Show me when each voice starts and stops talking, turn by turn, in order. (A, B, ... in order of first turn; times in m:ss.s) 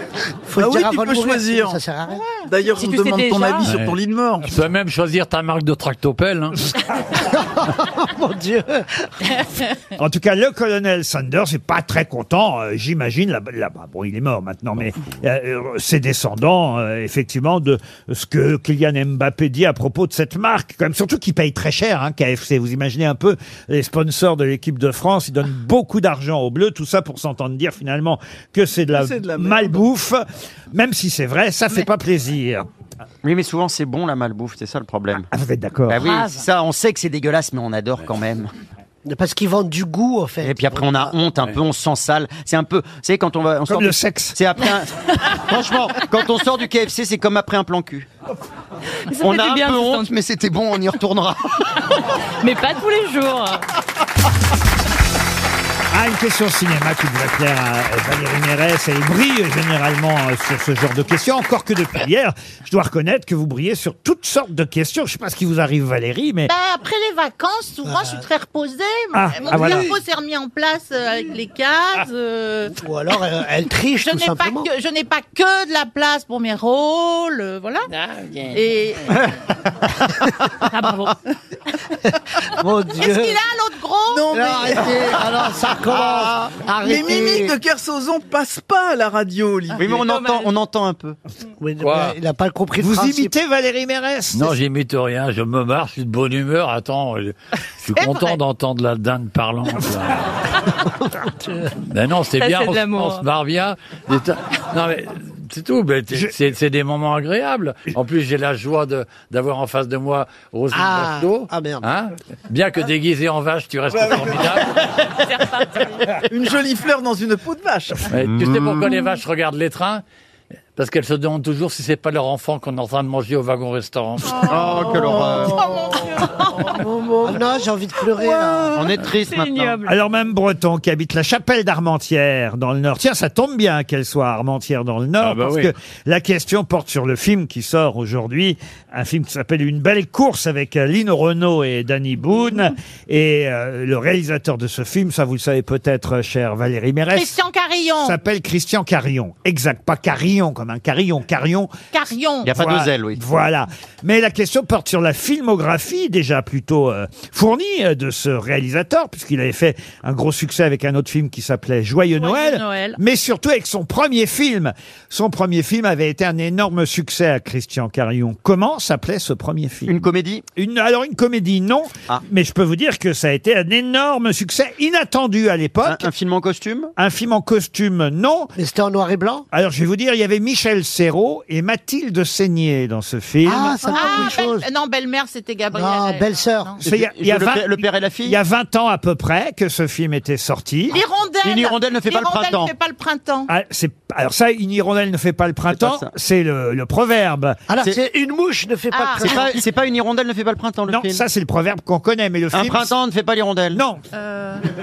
0:00.5-0:02.3 A
0:00.6-0:01.8 B
0:02.4-0:04.6 B
0:02.7-0:03.7 C
0:03.6-0:06.6 D
0:07.1-0:09.1 A
0:10.0-0:32.7 E
0:29.0-0:29.8 B
0:33.2-0:35.3 F
0:35.3-0:36.1 E
0:35.9-0:38.5 F
0:36.0-0:36.4 C
0:39.0-0:41.1 A
0:40.4-0:48.1 F
0:43.7-0:44.4 E
0:49.1-0:50.1 C
0:49.2-0:51.7 F
0:52.4-0:53.7 C
0:55.9-1:06.5 E
1:06.5-1:12.8 G
1:07.9-1:08.2 A
1:09.1-1:09.9 E
1:09.5-1:09.9 A
1:12.8-1:14.7 A
1:14.0-1:17.9 G
1:18.1-1:18.5 C
1:18.5-1:19.2 G
1:20.7-1:21.2 C
1:22.6-1:23.4 A
1:23.0-1:24.7 G
1:24.1-1:25.4 B
1:24.3-1:27.6 A
1:25.9-1:26.5 F
1:25.9-1:26.2 B
1:26.8-1:30.0 B
1:29.8-1:31.2 F
1:29.9-1:30.5 C
1:31.6-1:33.3 A
1:31.8-1:32.2 D
1:32.8-1:34.6 E
1:34.3-1:40.3 D
1:41.1-1:41.7 A
1:41.9-1:54.7 D
1:42.4-1:43.2 C
1:50.7-1:51.9 A
1:53.9-1:54.6 B
1:55.3-1:56.2 C
1:56.3-1:58.1 B
1:58.1-2:00.0 D
2:00.8-2:04.5 D
2:04.4-2:05.6 F
2:04.7-2:05.7 B
2:05.5-2:06.5 G
2:06.9-2:07.4 B
2:07.2-2:08.8 A
2:08.7-2:09.8 F
2:09.2-2:09.9 C
2:09.8-2:27.4 E
2:15.2-2:15.7 D
2:27.1-2:28.2 G
2:28.0-2:31.7 E
2:31.9-2:32.5 G
2:32.4-2:33.2 F
2:32.5-2:50.0 E
2:42.2-2:43.0 G
2:49.9-2:50.4 F
2:50.6-2:56.1 E
2:55.8-2:56.9 F
2:57.0-2:58.5 E
2:58.6-2:59.5 A
2:59.5-3:03.9 E
3:03.4-3:04.7 A
3:03.8-3:04.3 B
3:03.9-3:06.8 G
3:05.7-3:06.8 A
3:06.8-3:11.0 E
3:06.8-3:08.4 F
3:10.9-3:13.5 G
3:11.4-3:12.7 F
3:13.5-3:17.6 E
3:15.7-3:16.1 F
3:17.7-3:19.7 A
3:18.9-3:19.4 G
3:19.2-3:21.2 F
3:20.9-3:22.9 E
3:22.5-3:23.8 F
3:23.7-3:24.0 E
3:24.2-3:24.6 G